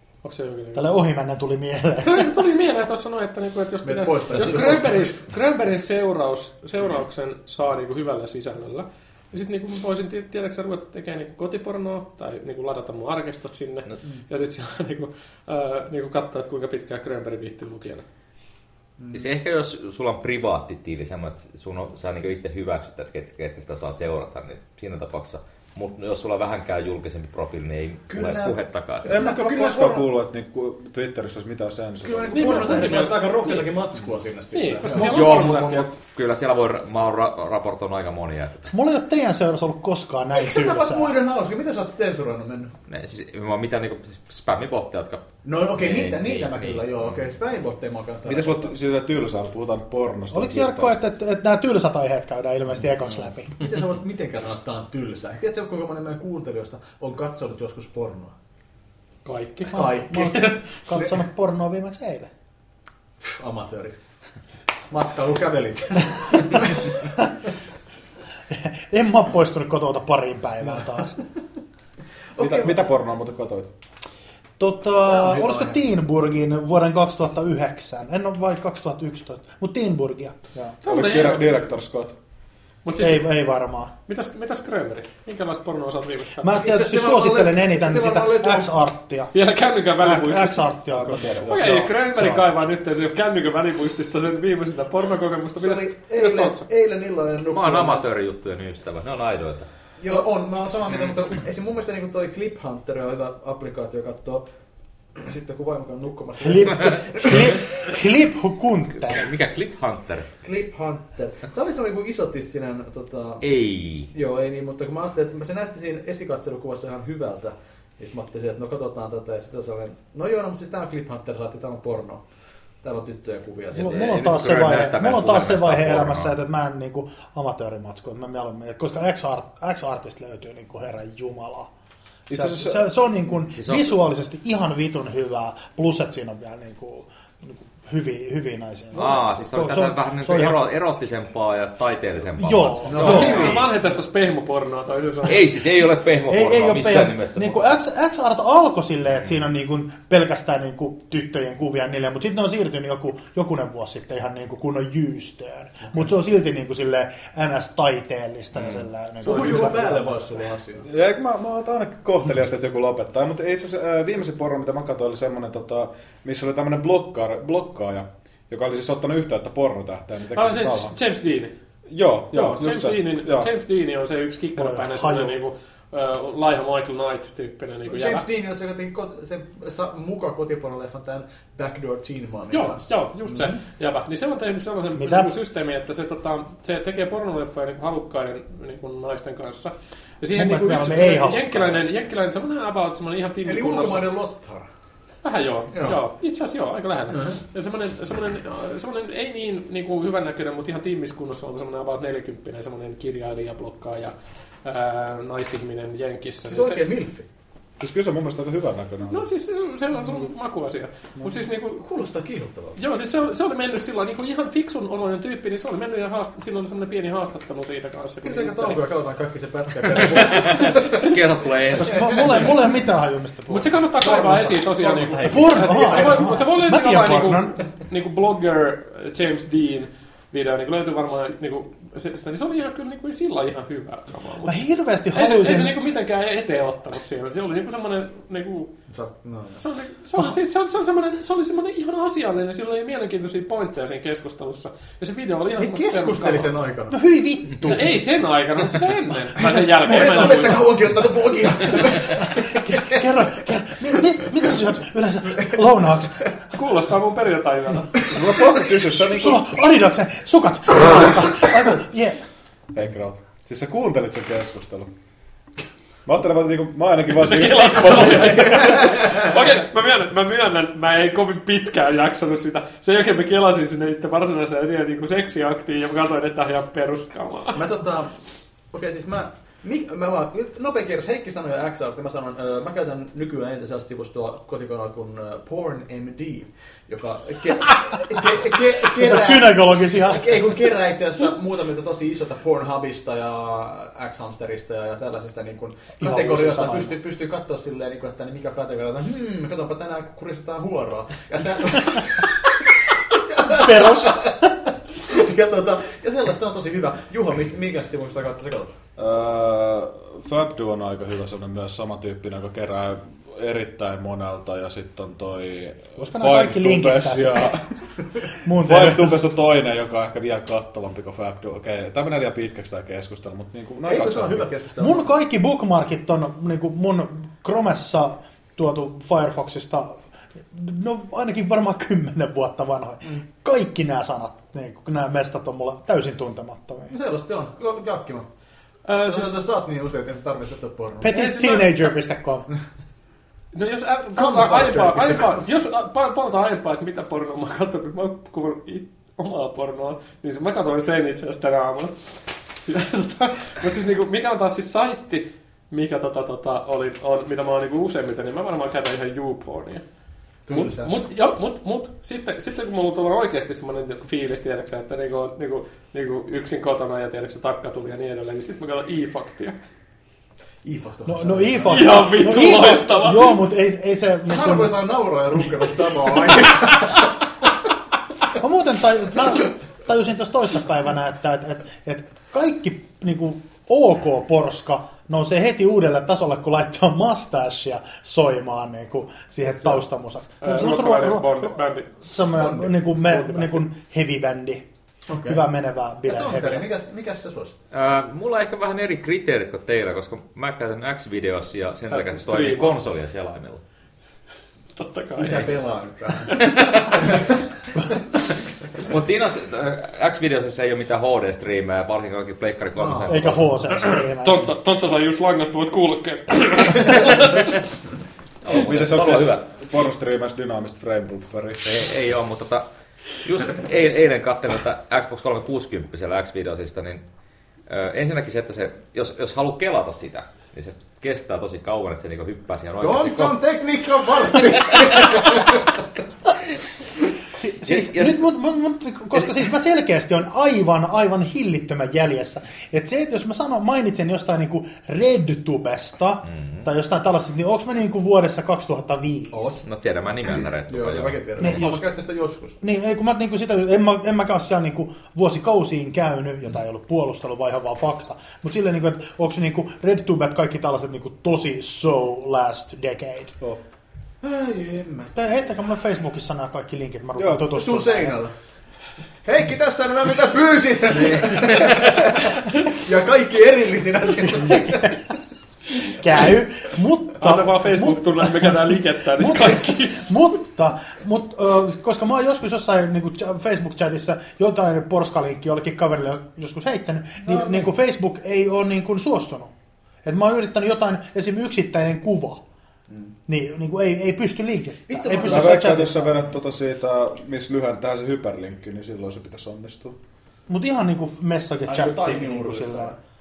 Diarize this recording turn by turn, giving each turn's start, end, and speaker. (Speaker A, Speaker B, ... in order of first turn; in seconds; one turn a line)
Speaker A: 0.2-0.9
Speaker B: 0.8-2.5
Speaker A: 2.0-18.1
Speaker C: 3.8-5.2
Speaker C: 19.0-19.3
Speaker D: 19.1-29.1
Speaker C: 28.1-30.1
Speaker E: 29.0-33.2
Speaker C: 32.0-35.7
Speaker A: 32.3-33.7
Speaker A: 34.5-35.9
Speaker D: 34.9-38.7
Speaker B: 38.7-41.2
Speaker C: 40.4-42.7
Speaker D: 42.9-47.2
Speaker C: 45.4-48.7
Speaker E: 48.2-51.0
Speaker B: 50.3-53.6
Speaker C: 53.6-58.3
Speaker A: 59.2-60.6
Speaker C: 59.7-61.1
Speaker B: 59.7-62.3
Speaker C: 63.2-64.0
Speaker C: 64.9-67.3
Speaker B: 68.5-71.2
Speaker C: 72.3-72.8
Speaker E: 72.4-73.7
Speaker B: 74.6-80.8
Speaker C: 75.1-75.8
Speaker A: 80.8-81.5
Speaker E: 80.8-82.1
Speaker A: 82.8-83.3
Speaker B: 83.0-83.9
Speaker A: 84.1-86.6
Speaker B: 86.4-89.3
Speaker C: 86.6-88.7
Speaker A: 89.3-90.6
Speaker B: 90.0-92.5
Speaker E: 90.1-91.8
Speaker A: 91.5-96.7
Speaker C: 95.6-98.1
Speaker D: 97.5-99.7
Speaker C: 100.0-104.4
Speaker C: 105.2-107.9
Speaker B: 106.4-109.3
Speaker D: 106.6-107.5
Speaker D: 109.0-110.3
Speaker C: 110.4-113.4
Speaker D: 113.4-114.1
Speaker C: 114.1-122.2
Speaker C: 122.8-124.1
Speaker B: 123.7-131.7
Speaker D: 123.9-126.3
Speaker E: 132.3-132.8
Speaker B: 132.3-140.6
Speaker D: 133.6-134.0
Speaker D: 138.9-143.7
Speaker B: 142.4-143.5
Speaker C: 142.9-143.7
Speaker A: 143.0-145.4
Speaker D: 145.2-147.7
Speaker B: 146.3-160.2
Speaker C: 159.2-160.9
Speaker A: 159.3-159.7
Speaker E: 160.9-171.0
Speaker A: 170.3-171.5
Speaker E: 171.9-173.5
Speaker A: 172.3-178.2
Speaker B: 174.6-175.4
Speaker C: 177.9-183.6
Speaker A: 182.5-194.1
Speaker B: 184.9-185.3
Speaker B: 190.3-191.8
Speaker C: 193.4-194.7
Speaker A: 195.2-206.8
Speaker C: 195.7-196.0
Speaker C: 197.1-197.4
Speaker C: 206.5-207.3
Speaker E: 207.8-209.3
Speaker A: 209.1-211.8
Speaker C: 211.8-212.8
Speaker A: 212.8-218.8
Speaker C: 218.2-221.2
Speaker D: 220.0-222.6
Speaker C: 221.7-222.5
Speaker B: 221.8-223.7
Speaker A: 223.5-238.7
Speaker C: 224.0-226.5
Speaker B: 225.3-227.6
Speaker B: 234.4-235.8
Speaker C: 238.9-239.6
Speaker A: 239.6-246.5
Speaker C: 245.6-247.0
Speaker B: 246.9-248.0
Speaker A: 247.6-250.6
Speaker B: 249.4-250.6
Speaker C: 249.8-253.1
Speaker B: 252.2-256.4
Speaker C: 255.4-255.6
Speaker A: 256.5-258.0
Speaker C: 257.9-258.2
Speaker E: 258.1-259.4
Speaker B: 259.1-262.2
Speaker E: 262.7-264.9
Speaker E: 266.1-268.7
Speaker A: 267.2-277.6
Speaker C: 268.2-269.4
Speaker C: 277.5-278.2
Speaker C: 278.7-302.5
Speaker B: 288.9-290.5
Speaker B: 296.0-297.0
Speaker C: 303.1-308.8
Speaker B: 303.4-304.5
Speaker E: 309.0-324.5
Speaker B: 316.0-317.7
Speaker B: 318.4-319.2
Speaker C: 323.9-325.1
Speaker B: 324.8-336.9
Speaker C: 336.9-338.3
Speaker A: 338.9-339.4
Speaker C: 339.0-341.2
Speaker B: 341.0-342.5
Speaker A: 341.1-341.9
Speaker A: 343.5-359.8
Speaker C: 344.2-345.4
Speaker C: 360.5-360.9
Speaker A: 360.5-369.6
Speaker C: 370.6-372.1
Speaker B: 371.1-374.8
Speaker A: 371.7-373.4
Speaker C: 374.3-377.1
Speaker B: 378.4-394.7
Speaker A: 390.4-391.9
Speaker C: 392.4-392.7
Speaker A: 393.1-393.6
Speaker C: 395.1-395.5
Speaker B: 395.2-396.7
Speaker C: 396.1-397.5
Speaker D: 397.7-403.6
Speaker A: 401.9-402.8
Speaker A: 404.8-405.6
Speaker C: 405.2-407.9
Speaker A: 406.3-406.6
Speaker D: 406.4-407.0
Speaker D: 408.8-413.7
Speaker C: 412.8-413.2
Speaker B: 413.1-414.5
Speaker A: 413.7-417.6
Speaker D: 418.4-419.5
Speaker E: 418.5-421.8
Speaker D: 421.6-427.0
Speaker D: 427.7-433.4
Speaker C: 432.8-435.8
Speaker D: 434.6-435.5
Speaker B: 437.3-449.6
Speaker D: 437.6-438.2
Speaker D: 446.3-446.6
Speaker C: 449.3-449.6
Speaker D: 449.6-451.6
Speaker C: 450.7-452.6
Speaker B: 451.4-451.8
Speaker B: 452.6-463.4
Speaker C: 464.2-465.1
Speaker B: 465.1-468.2
Speaker E: 467.2-467.5
Speaker C: 467.5-468.3
Speaker C: 469.2-475.0
Speaker D: 471.4-471.8
Speaker B: 474.4-474.9
Speaker B: 475.9-489.5
Speaker A: 477.2-480.1
Speaker C: 487.2-487.7
Speaker B: 490.0-492.4
Speaker C: 492.9-493.1
Speaker B: 493.3-496.2
Speaker C: 494.9-496.0
Speaker E: 495.2-500.0
Speaker B: 500.5-502.9
Speaker C: 501.7-503.0